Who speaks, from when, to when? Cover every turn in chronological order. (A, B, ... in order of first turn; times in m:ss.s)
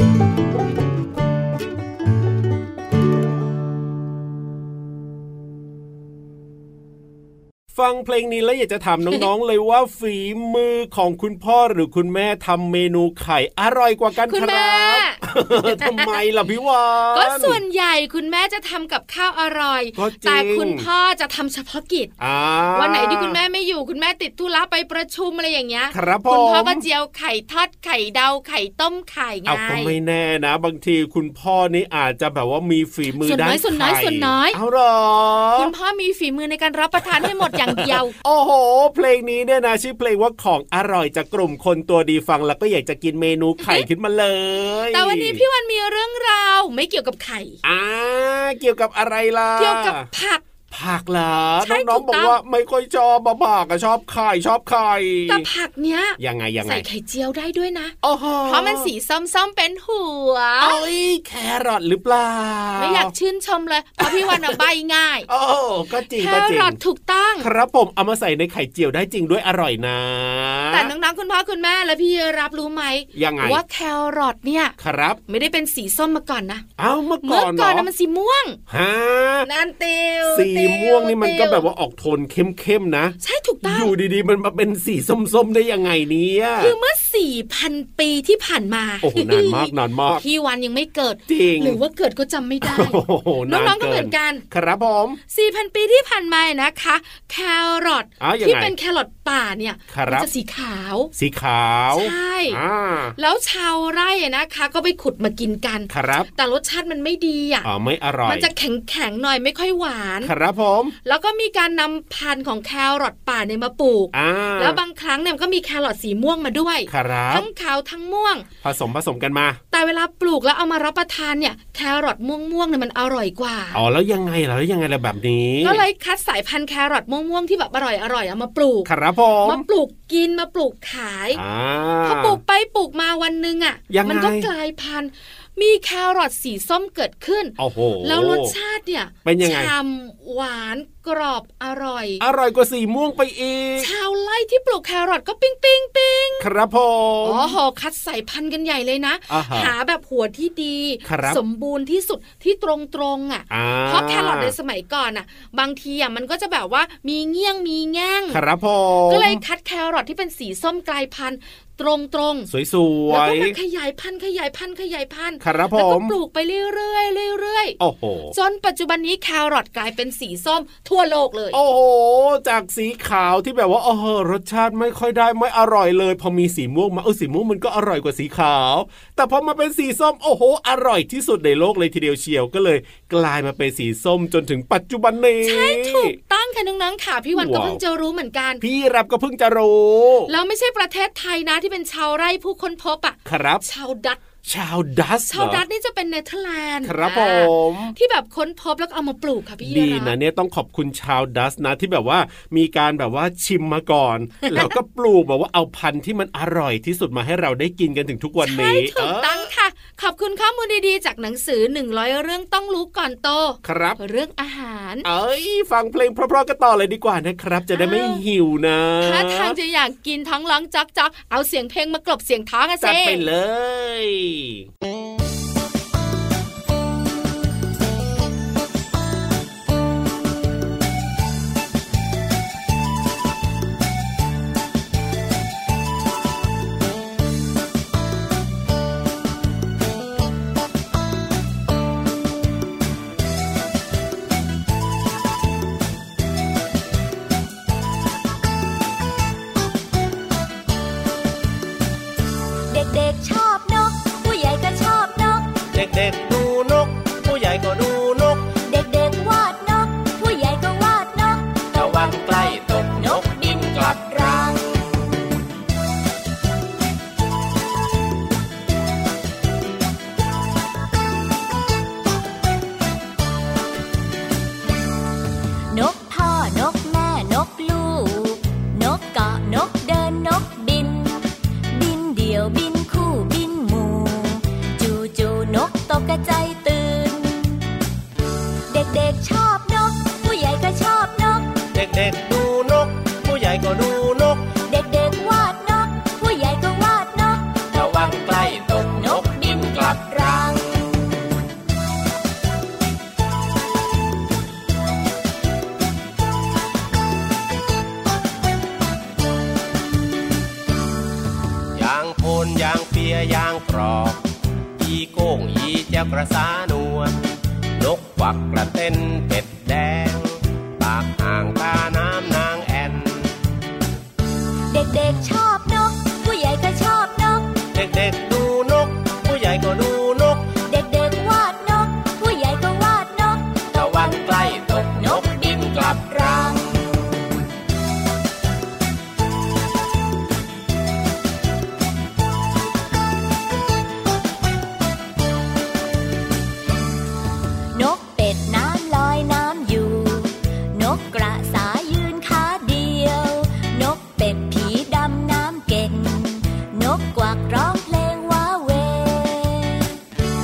0:07.7-0:17.6 A
0:14.2-0:16.2 B
0:17.1-0:22.1 B
0:20.0-0:20.8 A
0:22.2-0:23.4 A
0:22.7-0:29.9 B
0:25.9-0:26.8 A
0:29.4-0:35.7 A
0:33.2-0:34.6 B
0:35.6-0:38.1 B
0:37.2-0:45.4 A
0:44.9-0:47.6 B
0:47.6-0:50.1 A
0:49.6-0:50.4 B
0:50.7-0:55.4 A
0:51.6-0:52.4 B
0:55.3-1:00.8 B
0:56.2-0:56.8 A
0:58.0-0:58.9 A
1:00.6-1:03.1 A
1:02.8-1:05.3 B
1:04.0-1:04.6 A
1:05.3-1:06.8 A
1:06.1-1:07.5 B
1:07.4-1:10.9 A
1:10.7-1:14.7 B
1:13.1-1:13.6 A
1:14.8-1:15.2 A
1:15.3-1:16.6 B
1:16.8-1:17.9 A
1:17.2-1:18.6 B
1:18.7-1:19.5 A
1:19.4-1:21.6 B
1:20.3-1:26.7 A
1:23.2-1:23.9 B
1:26.6-1:34.4 B
1:29.0-1:30.2 A
1:31.3-1:31.8 A
1:32.6-1:35.2 A
1:35.3-1:41.1 B
1:38.2-1:38.7 A
1:39.9-1:40.3 A
1:41.1-1:43.2 A
1:41.9-1:42.6 B
1:43.2-1:47.7 B
1:45.9-1:46.3 A
1:47.6-1:48.5 A
1:48.2-1:50.3 B
1:50.2-1:50.9 A
1:51.0-1:58.5 B
1:54.1-1:54.8 A
1:56.9-1:57.4 A
1:58.6-1:59.6 A
1:59.7-2:03.8 B
2:03.7-2:05.8 A
2:05.6-2:08.9 B
2:08.8-2:09.6 A
2:09.4-2:11.4 B
2:11.3-2:12.4 A
2:12.0-2:22.2 B
2:13.9-2:14.5 A
2:17.6-2:18.5 A
2:19.2-2:19.7 A
2:22.2-2:23.9 A
2:23.8-2:26.5 B
2:26.4-2:27.6 A
2:27.2-2:38.4 B
2:29.3-2:29.7 A
2:31.0-2:31.4 A
2:33.5-2:34.5 A
2:38.3-2:39.4 A
2:39.1-2:42.5 B
2:42.5-2:43.6 A
2:43.1-2:47.8 B
2:45.4-2:46.1 A
2:47.8-2:48.3 A
2:48.3-2:51.6 B
2:51.5-3:06.2 A
3:05.4-3:08.6 B
3:07.3-3:07.8 A
3:08.6-3:10.3 A
3:10.3-3:14.2 B
3:13.2-3:13.6 A
3:14.4-3:15.6 A
3:15.3-3:20.1 B
3:16.8-3:17.9 A
3:19.6-3:29.5 A
3:28.4-3:35.0 B
3:33.6-3:34.0 A
3:35.0-3:39.6 A
3:37.7-3:38.2 B
3:39.0-3:43.2 B
3:42.8-3:44.7 A
4:12.7-4:15.5 C
4:15.7-4:18.5 D
4:18.6-4:24.6 C
4:21.7-4:24.6 D
4:35.7-4:47.6 C
4:48.7-4:51.6 C
4:51.7-4:54.5 D
4:54.6-5:00.6 C
4:57.7-5:00.8 D
5:11.7-5:14.2 D
5:14.8-5:23.3 D
5:24.7-5:27.6 C
5:27.7-5:30.5 D
5:30.6-5:36.6 C
5:33.7-5:36.6 D
5:47.7-5:59.9 C